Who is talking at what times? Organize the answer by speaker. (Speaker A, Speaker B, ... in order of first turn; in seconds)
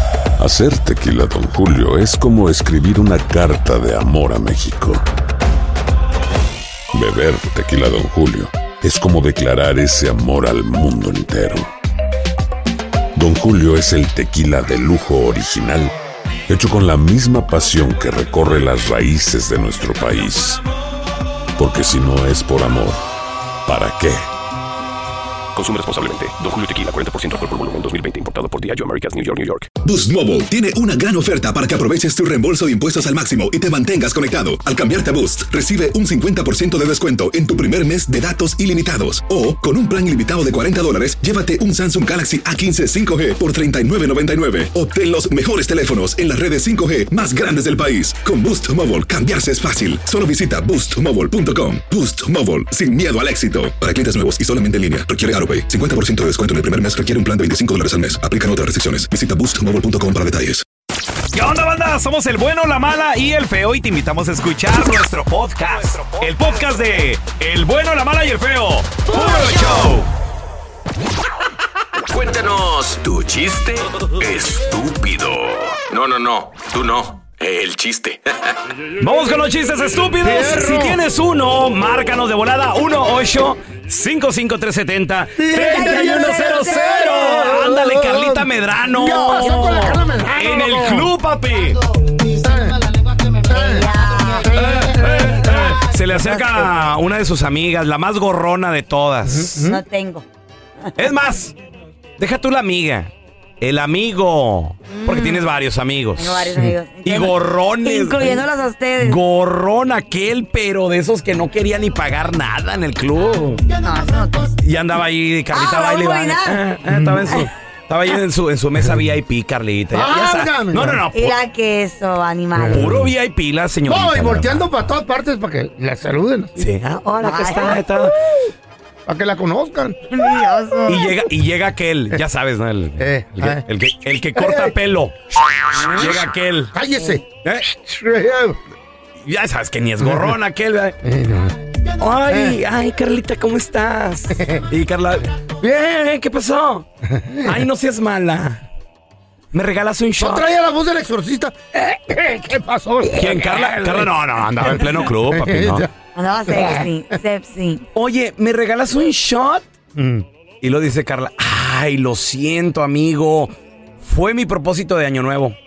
Speaker A: 0.4-5.0, 6.9-11.7, 13.1-15.9, 16.5-20.6, 21.6-23.0, 23.6-24.2
Speaker B: 25.5-29.7
Speaker C: 29.8-60.6
Speaker D: 61.3-70.1, 79.0-91.8, 94.6-99.6, 101.0-101.5, 102.2-108.4, 109.0-113.6, 114.6-121.3, 122.7-124.7, 126.5-128.2, 130.9-135.1, 135.8-136.7, 139.2-140.9, 142.0-146.8, 147.4-148.6, 149.5-150.4, 153.1-155.8, 157.9-159.6, 160.6-163.5, 164.0-165.6
Speaker E: 72.1-78.2
Speaker F: 80.2-81.0, 85.4-91.1, 92.2-92.8, 93.4-96.8, 99.3-99.8, 116.9-117.5, 119.9-121.0, 122.5-123.1, 123.9-126.5, 129.1-130.0, 133.0-133.6, 134.3-134.7, 136.7-138.6, 140.0-140.3, 141.0-141.6, 142.3-142.6, 147.1-147.6, 150.2-155.9, 156.5-156.9, 159.9-160.2
Speaker G: 85.6-86.7, 93.5-95.1, 99.6-100.2, 104.9-105.5, 106.2-109.2, 113.8-114.5, 115.5-116.6, 121.1-122.9, 127.1-127.8, 130.1-131.2, 156.1-157.8